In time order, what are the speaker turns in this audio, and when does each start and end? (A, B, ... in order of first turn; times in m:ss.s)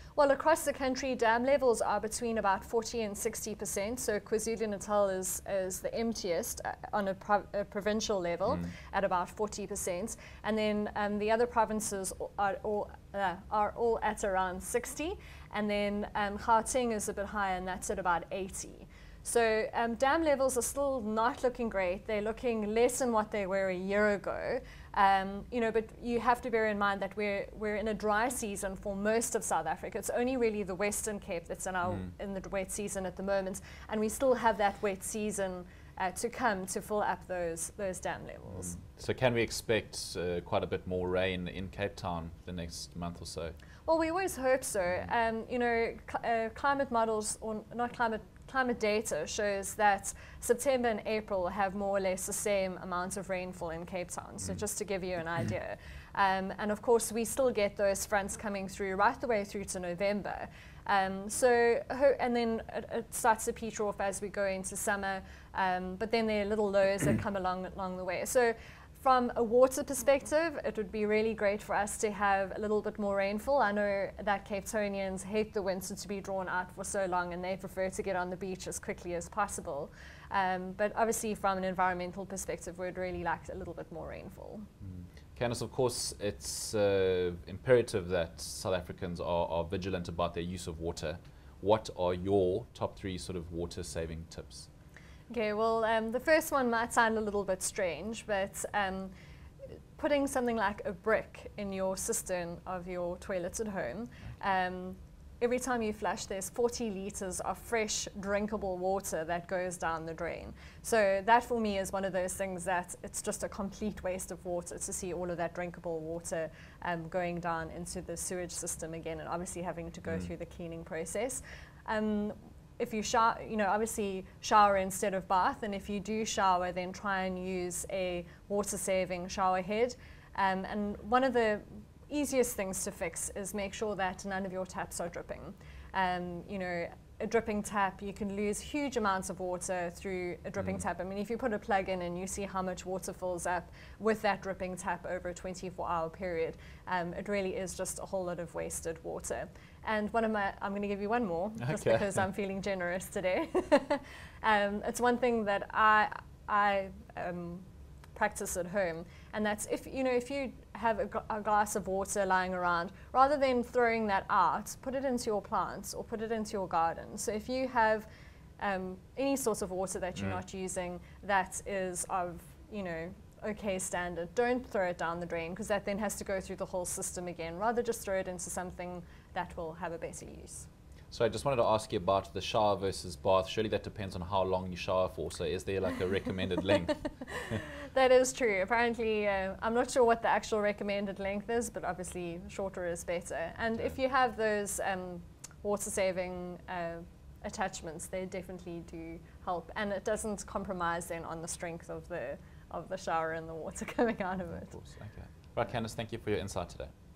0:00.2-0:38.8 A
0:38.5-0:43.6 B
0:43.8-1:24.7 A
1:24.8-1:34.7 B
1:35.3-1:39.1 A
1:40.0-2:48.1 A
2:31.6-2:32.2 B
2:48.6-3:00.7 A
3:01.1-3:07.0 B
3:07.9-3:24.8 A
3:24.7-3:26.9 B